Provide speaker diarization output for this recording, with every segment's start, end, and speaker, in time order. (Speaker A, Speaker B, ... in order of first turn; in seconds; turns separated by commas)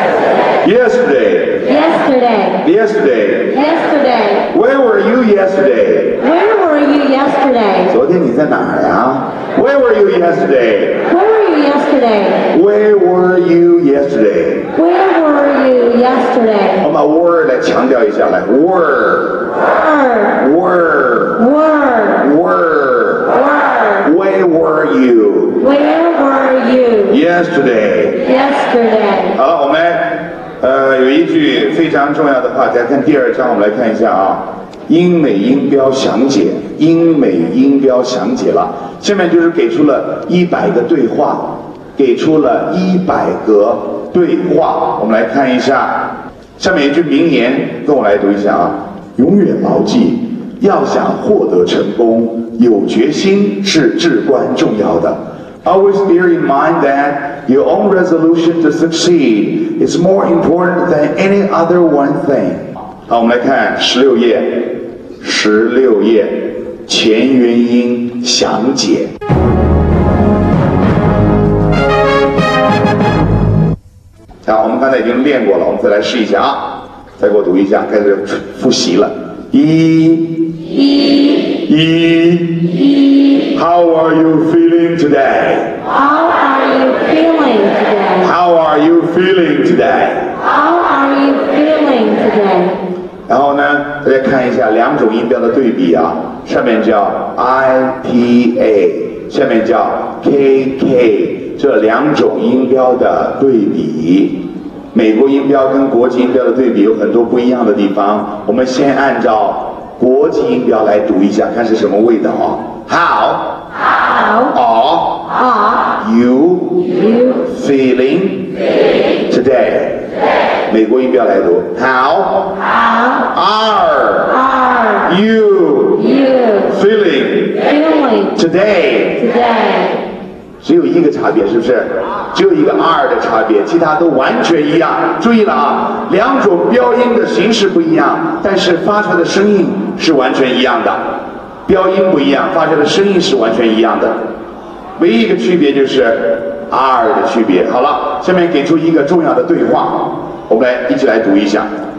Speaker A: 0.6-1.6, Speaker B: 1.6-2.6, Speaker A: 2.6-3.5, Speaker B: 3.5-4.5, Speaker A: 4.5-6.2, Speaker B: 6.2-8.0, Speaker A: 7.9-11.0, Speaker B: 11.1-12.4, Speaker A: 12.5-14.7, Speaker B: 14.8-16.8, Speaker A: 16.8-19.5, Speaker B: 19.7-20.4, Speaker A: 20.4-21.4, Speaker B: 21.4-22.3, Speaker A: 22.2-23.3, Speaker B: 23.3-24.1, Speaker A: 24.0-25.6, Speaker B: 25.6-27.2, Speaker A: 27.1-28.2, Speaker B: 28.2-29.4, Speaker A: 29.4-69.1, Speaker A: 74.5-80.5, Speaker B: 80.7-81.6, Speaker A: 81.6-82.7, Speaker B: 82.8-83.5, Speaker A: 83.5-85.8, Speaker B: 85.9-88.3, Speaker A: 88.2-90.3, Speaker B: 90.5-92.8, Speaker A: 93.3-104.4, Speaker A: 104.9-113.6, Speaker B: 114.1-114.5, Speaker A: 114.5-115.3, Speaker B: 115.4-115.9, Speaker A: 116.0-116.9, Speaker B: 116.9-117.4, Speaker A: 117.4-118.5, Speaker A: 119.3-120.0, Speaker A: 120.7-122.5, Speaker B: 122.7-123.3, Speaker A: 123.3-124.3, Speaker B: 124.3-125.1, Speaker A: 125.0-126.0, Speaker B: 126.0-126.8, Speaker A: 126.7-127.6, Speaker B: 127.6-128.4, Speaker A: 128.4-129.2, Speaker B: 129.2-130.0, Speaker A: 130.6-141.0, Speaker A: 141.7-144.2, Speaker A: 145.0-151.7